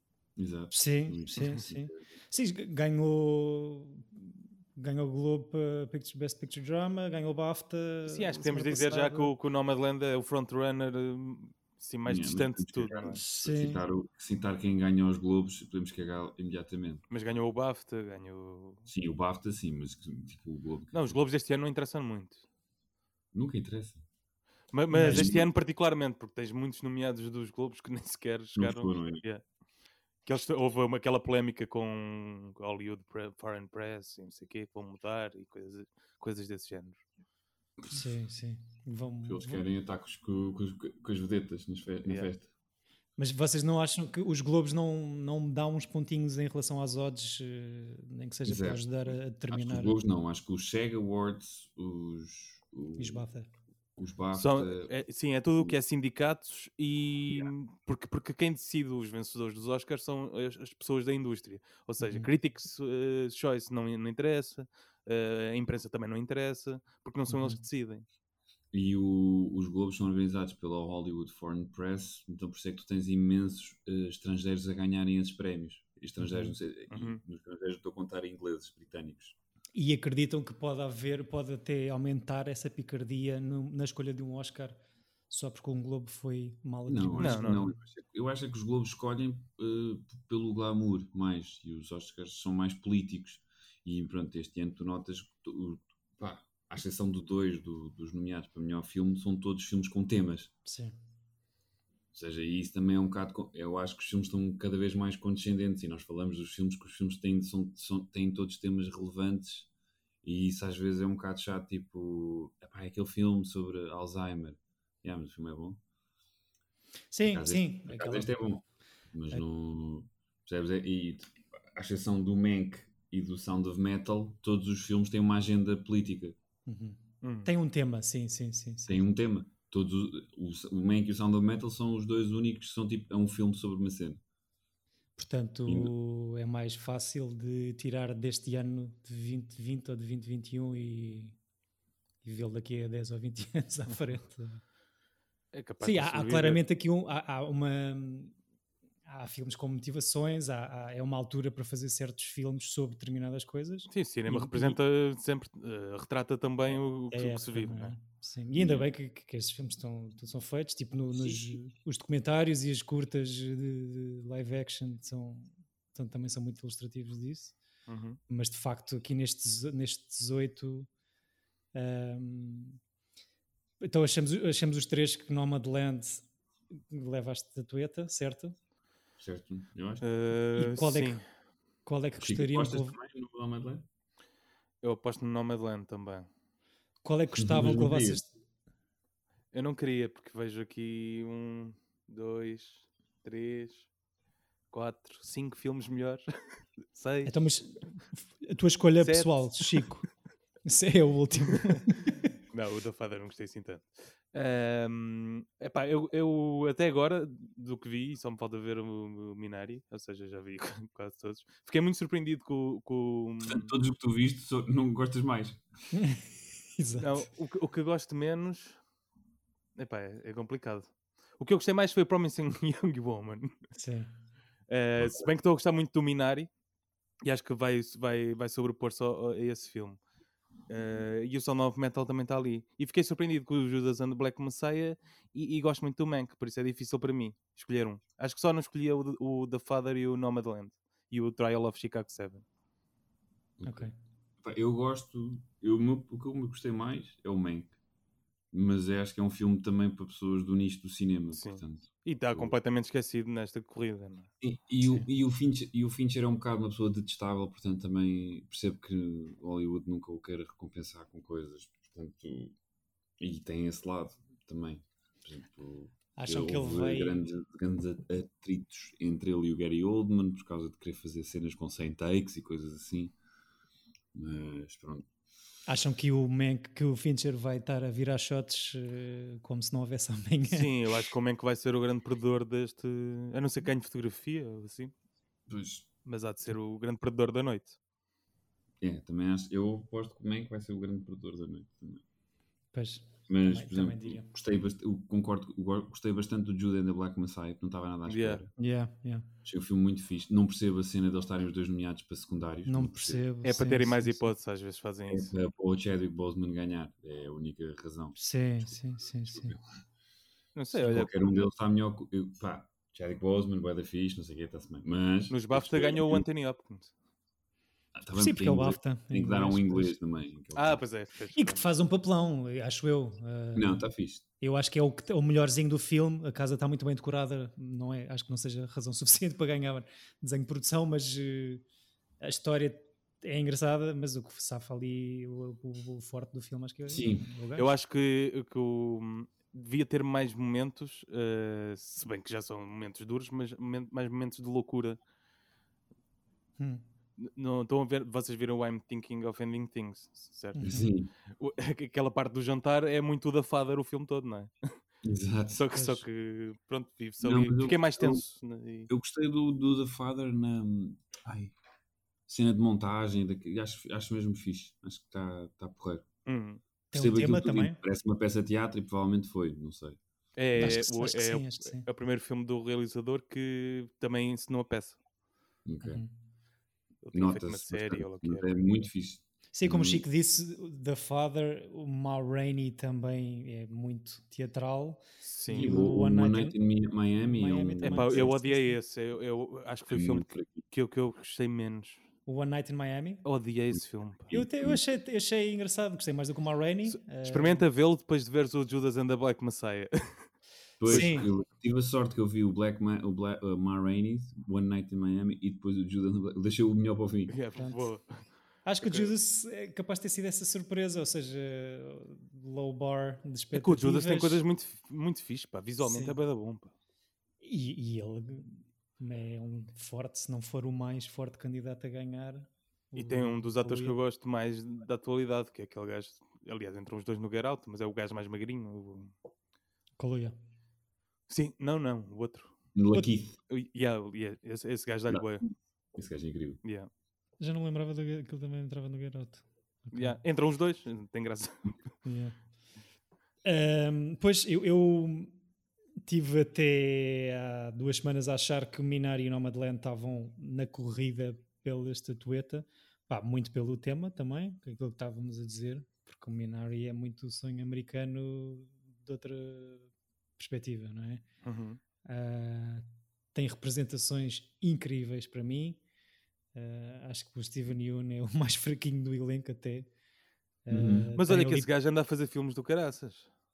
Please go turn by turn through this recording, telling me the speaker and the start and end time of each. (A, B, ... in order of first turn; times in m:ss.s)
0:00.4-0:02.0 A
0:00.7-0:09.3 B
0:08.1-0:13.2 C
0:12.1-0:17.0 A
0:13.1-0:13.8 B
0:17.1-0:18.9 C
0:18.9-0:21.2 A
0:20.9-0:22.4 C
0:23.3-0:24.0 A
0:24.7-0:29.4 C
0:24.9-0:25.3 B
0:25.1-0:25.5 A
0:28.6-0:29.2 A
0:30.2-0:37.0 C
0:37.9-0:39.6 B
0:39.3-0:42.5 A
0:43.2-0:50.0 B
0:48.4-0:53.2 A
0:53.0-0:53.5 B
0:54.0-0:54.9 A
0:54.3-1:08.0 C
1:02.0-1:02.3 B
1:07.3-1:07.6 B
1:08.7-1:19.4 A
1:16.2-1:16.5 B
1:16.9-1:17.2 C
1:19.8-1:24.8 B
1:25.3-1:27.6 B
1:26.9-1:40.5 A
1:27.2-1:27.6 C
1:40.6-1:40.9 B
1:42.1-1:49.7 A
1:50.2-1:55.8 A
1:57.1-1:58.3 B
1:57.3-2:06.4 A
2:06.7-2:09.0 B
2:07.2-2:07.5 C
2:08.9-2:14.2 A
2:15.2-2:21.4 B
2:15.7-2:15.9 A
2:22.2-2:24.6 B
2:25.5-2:26.6 C
2:25.8-2:28.3 B
2:29.1-2:34.8 B
2:33.9-2:37.9 C
2:37.1-2:47.6 B
2:47.9-2:48.2 C
2:48.3-2:50.9 B
2:51.7-2:52.8 B
2:53.8-2:56.2 B
2:56.9-2:58.6 B
2:59.2-3:00.1 A
3:00.0-3:01.2 C
3:00.6-3:01.2 B
3:01.8-3:03.0 B
3:02.2-3:03.9 A
3:04.8-3:06.3 C
3:07.0-3:08.3 B
3:07.4-3:08.2 A
3:09.5-3:13.9 C
3:14.7-3:16.2 C
3:16.9-3:17.3 C
3:17.2-3:20.1 B
3:19.0-3:19.8 C
3:20.6-3:22.3 B
3:21.5-3:21.8 C
3:22.5-3:33.7 C
3:33.4-3:35.6 A
3:35.9-3:37.3 B
3:37.0-3:38.8 C
3:39.8-3:43.6 C
3:43.8-3:44.1 B
3:44.7-3:46.5 C
3:45.0-3:45.3 A
3:47.2-3:50.0 C
3:50.7-4:02.4 C
4:03.6-4:07.7 A
4:03.6-4:03.9 B
4:08.5-4:12.6 A
4:11.3-4:14.3 C
4:14.4-4:22.6 A
4:23.2-4:33.2 A
4:26.2-4:27.2 B
4:34.1-4:35.1 A
4:35.7-4:41.0 B
4:40.5-4:44.9 C
4:45.5-4:45.9 A
4:46.0-4:47.8 C
4:48.8-4:52.0 A
4:52.7-4:54.3 B
4:53.3-4:58.5 A
4:58.1-4:58.4 C
4:58.6-4:59.3 B
4:59.4-5:03.2 A
5:02.7-5:04.3 B
5:03.4-5:05.3 C
5:05.1-5:08.2 A
5:08.2-5:09.6 B
5:08.7-5:09.6 A
5:10.6-5:11.1 C
5:10.7-5:16.3 A
5:15.3-5:16.9 C
5:18.0-5:20.8 A
5:18.1-5:20.0 B
5:20.6-5:21.6 C
5:21.4-5:23.8 B
5:23.6-5:24.2 A
5:24.4-5:31.6 B
5:32.2-5:37.7 B
5:36.9-5:37.3 A
5:37.6-5:45.0 C
5:46.6-5:46.8 B
5:47.2-5:50.7 C
5:50.6-5:50.9 B
5:50.6-5:51.1 A
5:51.4-5:54.7 C
5:55.0-5:55.6 A
5:55.5-5:58.9 C
5:55.7-5:56.0 B
5:57.2-5:58.2 A
5:58.9-6:01.2 A
6:02.3-6:06.1 A
6:06.3-6:06.6 C
6:06.9-6:07.8 B
6:06.9-6:10.0 A
6:10.4-6:15.0 C
6:10.6-6:11.9 B
6:15.7-6:16.0 A
6:15.8-6:16.1 B
6:17.0-6:18.5 C
6:17.1-6:20.0 A
6:19.5-6:26.6 B
6:25.2-6:25.7 C
6:25.5-6:28.3 A
6:27.2-6:28.8 B
6:27.8-6:32.0 C
6:29.9-6:30.6 A
6:32.3-6:33.2 B
6:33.2-6:34.3 C
6:33.8-6:34.8 A
6:34.3-6:37.6 B
6:36.9-6:40.3 C
6:40.8-6:47.4 A
6:40.8-6:41.2 C
6:40.9-6:41.3 B
6:47.3-6:48.3 C
6:47.6-6:47.8 B
6:48.6-6:54.4 B
6:48.8-6:49.1 C
6:53.5-6:56.7 C
6:55.8-6:56.2 B
6:57.4-7:04.0 B
7:03.0-7:09.1 C
7:10.0-7:10.4 B
7:11.3-7:12.6 C
7:12.8-7:13.4 A
7:13.5-7:15.5 C
7:16.0-7:16.6 A
7:16.6-7:16.9 C
7:17.4-7:20.2 B
7:19.9-7:21.8 C
7:22.0-7:22.4 B
7:23.4-7:25.4 B
7:26.0-7:41.2 B
7:41.4-7:41.8 C
7:42.0-7:45.8 B
7:46.5-7:49.9 B
7:50.6-7:51.7 B
7:50.7-7:51.1 A
7:51.2-7:53.3 C